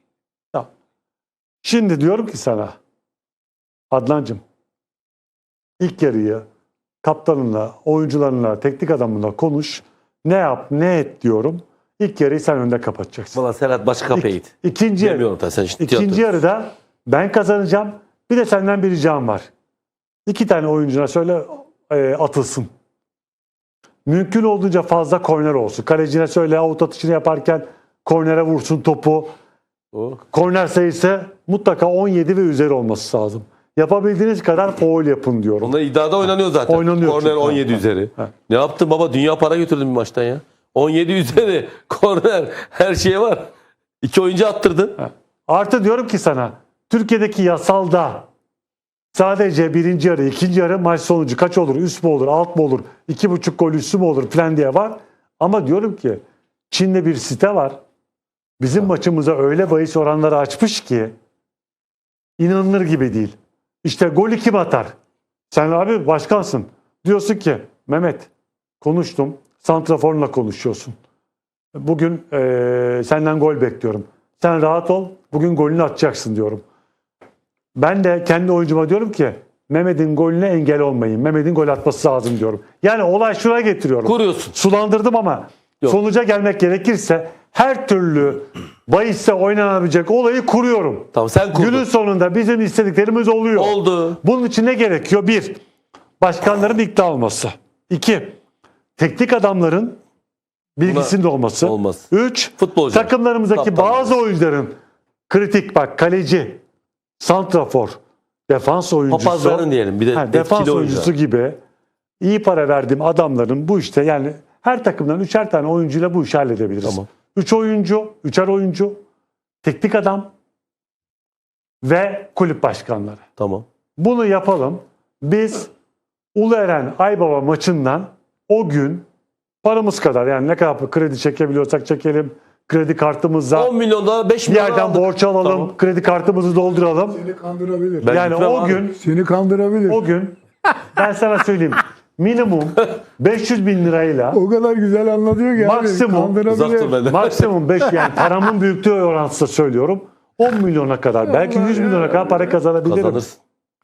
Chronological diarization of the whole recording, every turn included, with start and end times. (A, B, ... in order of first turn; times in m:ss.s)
0:01.6-0:02.8 A
0:03.9-0:04.4 A
0:05.8-0:06.4 A
0:07.0-0:13.4 A
0:13.3-0:16.3 B
0:14.1-0:15.3 A
0:15.8-0:19.5 A
0:20.2-0:22.7 A
0:24.0-0:29.3 A
0:29.9-0:30.2 B
0:30.3-0:35.7 A
0:35.6-0:43.5 B
0:36.6-0:38.2 A
0:44.0-0:45.0 B
0:45.0-0:48.3 A
0:49.1-0:57.8 A
0:58.6-1:01.1 A
1:02.4-1:04.9 A
1:05.5-1:08.3 A
1:08.8-1:10.9 A
1:11.7-1:16.6 A
1:17.7-1:35.6 A
1:24.0-1:24.5 B
1:31.1-1:31.8 B
1:33.6-1:34.2 B
1:36.2-1:38.4 A
1:39.0-1:40.0 A
1:40.8-1:44.7 A
1:40.8-1:44.1 B
1:45.3-1:46.6 A
1:47.2-1:51.6 A
1:49.1-1:51.1 B
1:52.2-1:59.0 A
1:59.6-2:00.3 A
2:01.8-2:03.2 A
2:03.4-2:03.6 B
2:04.0-2:05.7 A
2:06.3-2:09.0 A
2:09.6-2:13.7 A
2:13.5-2:15.7 B
2:14.4-2:17.3 A
2:17.3-2:18.2 C
2:18.0-2:18.8 B
2:18.1-2:19.0 A
2:19.0-2:20.0 C
2:19.9-2:24.4 A
2:24.3-2:27.0 C
2:25.6-2:26.5 A
2:26.4-2:28.2 B
2:27.0-2:33.2 A
2:32.8-2:33.4 B